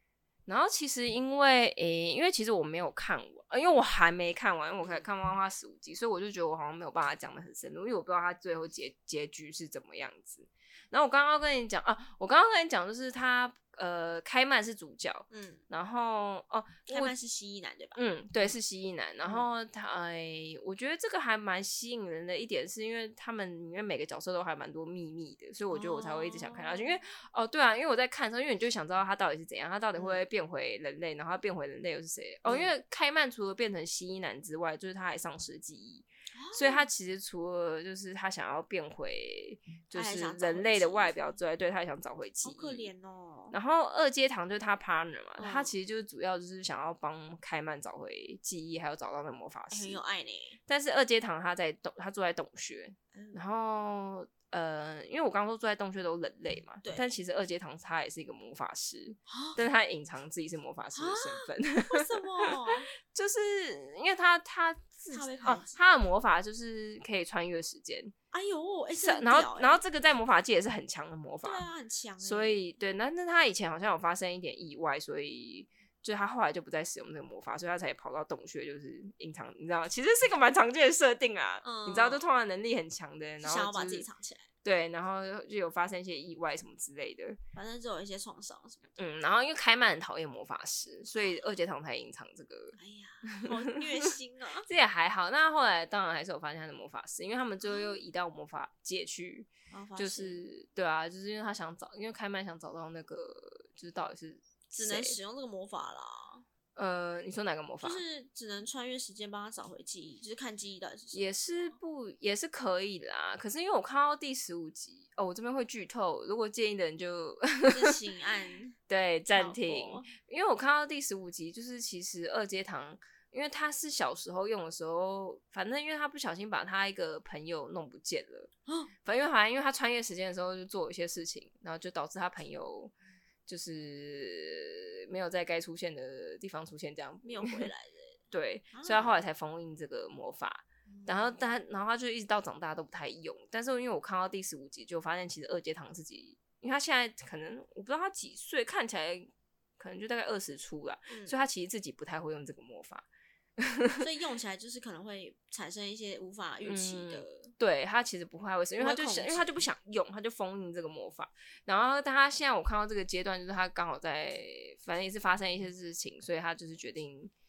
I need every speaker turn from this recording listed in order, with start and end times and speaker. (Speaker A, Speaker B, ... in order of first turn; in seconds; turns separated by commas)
Speaker A: 0.5-17.1, Speaker B: 15.3-15.6, Speaker B: 16.9-18.5, Speaker A: 17.9-42.9, Speaker B: 25.7-27.0, Speaker B: 30.0-30.2, Speaker B: 32.5-32.7, Speaker B: 36.4-36.9, Speaker B: 39.9-41.4, Speaker B: 42.4-43.6, Speaker A: 43.5-50.0, Speaker B: 45.4-45.7, Speaker B: 49.7-50.6, Speaker A: 50.7-62.5, Speaker B: 53.1-53.4, Speaker B: 56.8-57.1, Speaker B: 59.3-59.6, Speaker B: 61.0-62.9, Speaker A: 63.1-68.1, Speaker B: 65.1-65.7, Speaker B: 68.3-69.8, Speaker A: 68.9-71.7, Speaker B: 71.4-72.6, Speaker A: 72.2-84.1, Speaker B: 81.6-82.2, Speaker B: 83.4-84.5, Speaker A: 84.6-87.4, Speaker B: 87.5-88.9, Speaker A: 89.0-92.8, Speaker B: 91.1-91.4, Speaker B: 92.8-94.7, Speaker A: 94.7-105.2, Speaker B: 97.6-98.0, Speaker B: 99.7-100.4, Speaker B: 104.8-106.5, Speaker A: 106.8-108.0, Speaker B: 107.8-111.8, Speaker A: 111.1-117.9, Speaker B: 117.7-118.8, Speaker A: 118.9-128.5, Speaker B: 119.3-120.1, Speaker B: 128.7-128.9, Speaker A: 129.0-132.9, Speaker A: 133.5-137.7, Speaker B: 137.2-138.2, Speaker A: 138.3-153.1, Speaker B: 138.7-139.2, Speaker B: 140.9-141.4, Speaker B: 151.1-151.4, Speaker A: 153.6-154.0, Speaker B: 154.0-157.5, Speaker A: 156.7-167.3, Speaker B: 158.8-159.6